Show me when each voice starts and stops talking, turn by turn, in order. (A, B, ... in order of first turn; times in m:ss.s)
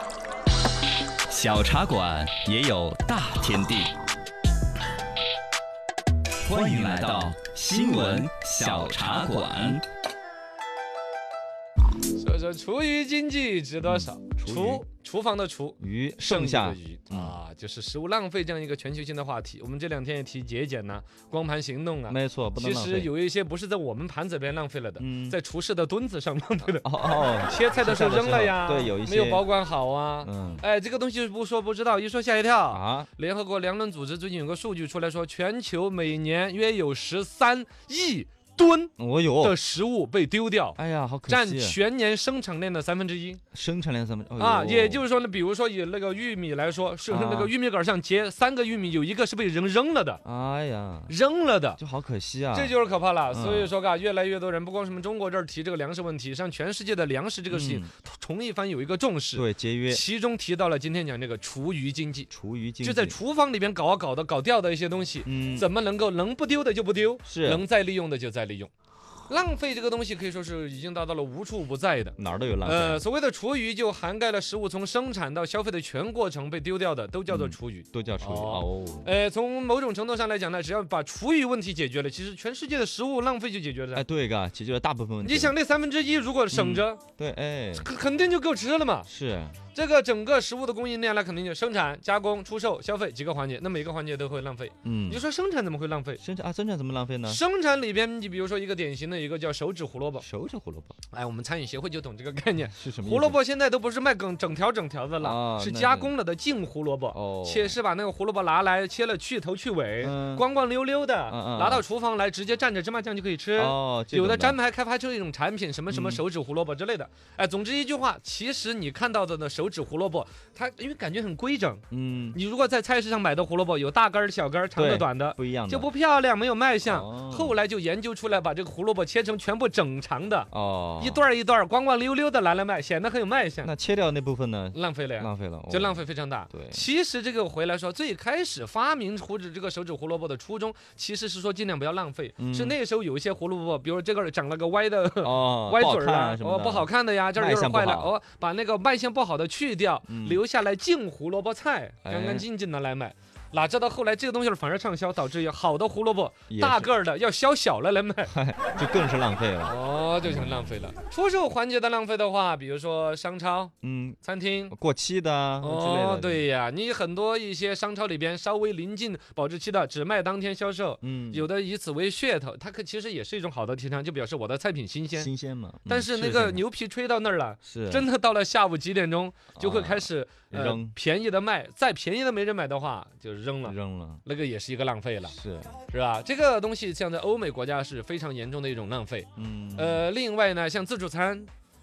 0:01.3-0:03.9 A
0:06.4-0:09.8 A
0:12.2-0:26.9 B
0:13.8-0:14.8 C
0:15.8-0:17.4 C
0:22.1-0:23.1 C
0:25.0-0:25.4 C
0:26.8-0:29.5 C
0:27.4-0:43.4 B
0:30.2-0:30.6 C
0:32.7-0:33.1 C
0:39.0-0:39.6 C
0:40.8-0:41.8 C
0:43.5-0:45.0 C
0:44.4-0:50.2 B
0:47.1-0:47.5 C
0:50.2-0:51.1 C
0:51.1-0:51.8 B
0:51.8-0:52.8 C
0:52.5-1:02.3 B
0:53.3-0:53.7 C
0:57.5-0:57.9 C
0:59.3-1:00.0 C
1:02.3-1:03.2 C
1:02.8-1:08.7 B
1:05.2-1:05.7 C
1:07.2-1:07.6 C
1:09.3-1:24.0 B
1:12.2-1:13.0 C
1:17.3-1:19.1 C
1:23.9-1:25.5 C
1:25.2-1:27.0 B
1:26.5-1:27.9 C
1:27.7-1:29.1 B
1:29.0-1:29.6 C
1:29.7-1:36.2 B
1:34.8-1:35.2 C
1:36.2-1:37.4 C
1:37.2-1:40.2 B
1:40.2-1:40.9 C
1:41.1-2:13.7 B
1:42.8-1:43.4 C
1:45.2-1:46.1 C
1:47.1-1:47.8 C
1:50.0-1:50.4 C
1:51.2-1:51.8 C
1:53.6-1:54.6 C
1:55.9-1:56.2 C
2:01.9-2:02.4 C
2:04.8-2:05.9 C
2:06.8-2:07.6 C
2:10.5-2:11.2 C
2:13.6-2:16.8 C
2:14.7-2:38.3 B
2:22.4-2:22.8 C
2:25.2-2:28.1 C
2:30.1-2:30.4 C
2:32.0-2:32.4 C
2:36.5-2:36.9 C
2:38.3-2:40.8 C
2:39.6-2:44.7 B
2:43.8-2:46.4 C
2:45.6-2:55.3 B
2:51.0-2:51.5 C
2:55.1-2:56.6 C
2:55.9-3:05.4 B
2:57.6-2:58.1 C
2:59.6-3:01.0 C
3:03.6-3:04.2 C
3:05.3-3:05.7 C
3:05.9-3:11.5 B
3:09.4-3:10.0 C